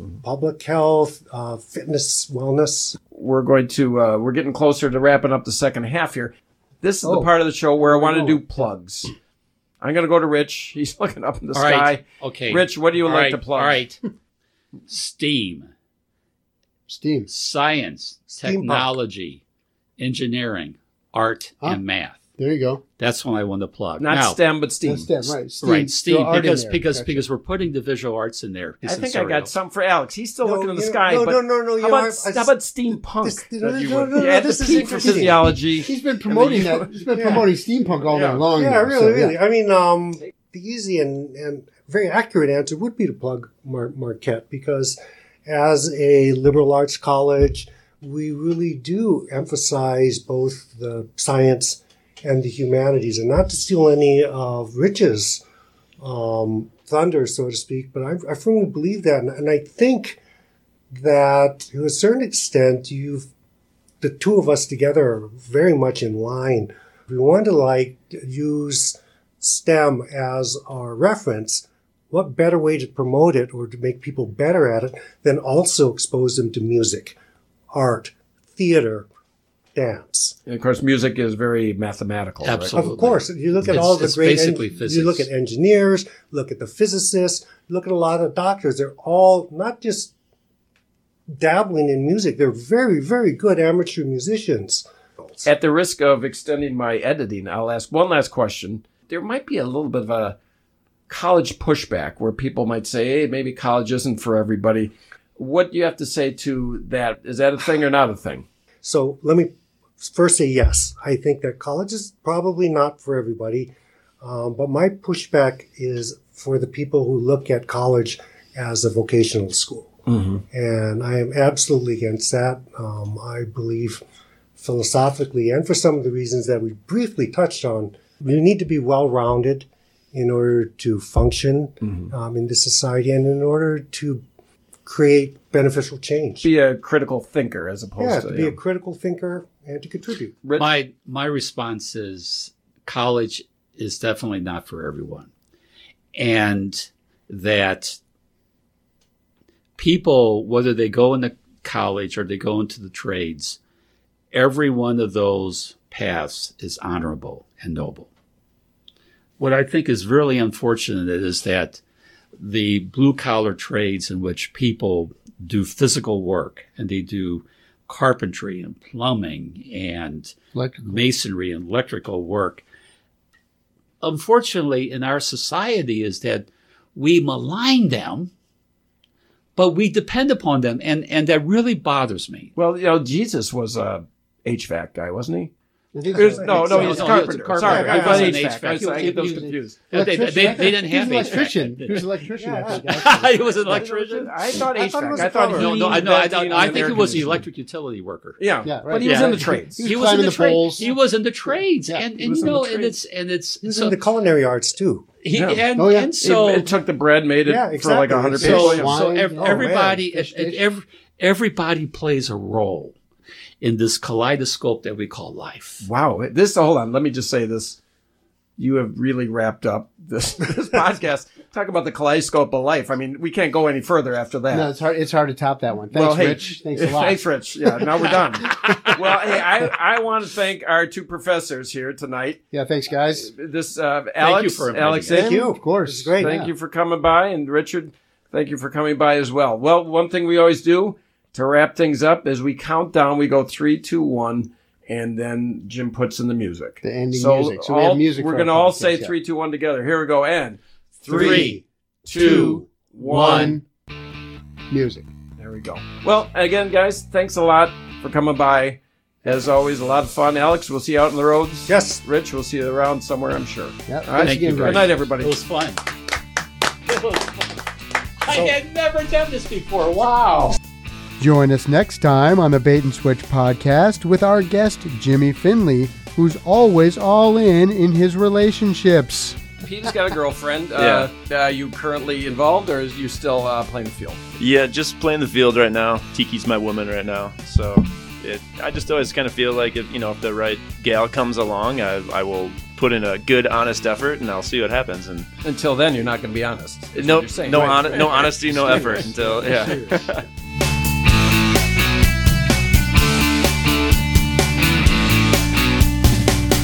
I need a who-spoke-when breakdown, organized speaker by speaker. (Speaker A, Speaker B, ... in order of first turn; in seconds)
Speaker A: 0.2-2.9, 18.3-18.9, 30.4-32.6, 33.1-35.4, 37.1-37.5, 38.5-55.4, 56.0-60.2, 60.9-63.3, 64.0-77.2, 77.7-79.1, 79.8-80.4, 82.7-90.1, 91.3-95.5, 108.8-120.0, 120.5-124.0, 124.6-134.2, 134.8-136.5, 138.0-140.3, 186.2-186.8, 187.6-188.4, 192.4-193.1, 194.5-196.1, 203.6-205.1, 207.5-208.9, 209.4-210.0, 235.1-236.3, 251.1-251.6, 252.2-252.7, 261.7-262.0
Speaker B: 3.1-9.1, 9.8-13.8, 24.0-25.4, 28.8-37.4, 37.9-38.5, 80.5-82.7, 95.5-100.4, 101.1-108.5, 120.1-120.4, 136.4-138.6, 140.4-140.7, 182.6-185.5, 186.1-189.8, 193.7-197.4, 198.4-199.8, 202.2-202.9, 205.3-205.6, 206.2-209.0, 215.8-217.8, 218.6-224.7, 225.9-232.4, 233.1-235.5, 236.2-253.6, 255.4-265.4, 279.6-284.2, 295.4-299.8
Speaker C: 7.0-8.7, 16.9-17.3, 22.4-22.8, 24.9-27.2, 34.6-39.3, 170.5-170.9, 185.9-193.8, 196.7-197.2, 198.7-200.9, 201.9-202.6, 205.8-206.1, 208.4-210.6, 224.5-229.4, 232.5-233.3, 235.4-236.5, 246.8-249.1, 253.0-253.6, 254.7-255.1, 263.9-265.0, 271.2-279.4, 298.4-299.9
Speaker D: 11.5-14.0, 14.9-15.7, 17.3-19.4, 20.0-22.2, 23.0-24.4, 25.6-29.5, 82.4-85.3, 140.6-145.3, 146.2-148.0, 149.8-153.6, 154.3-158.1, 159.4-161.8, 162.4-172.6, 174.0-178.3, 179.6-182.5, 186.5-192.1, 192.7-194.5, 195.5-198.4, 199.0-204.0, 205.2-206.7, 208.4-213.0, 213.6-215.8, 234.2-235.3, 251.1-251.6, 253.0-253.6, 264.2-265.8, 266.9-267.6, 268.2-270.6
Speaker E: 280.8-281.1, 284.4-295.3, 296.9-300.3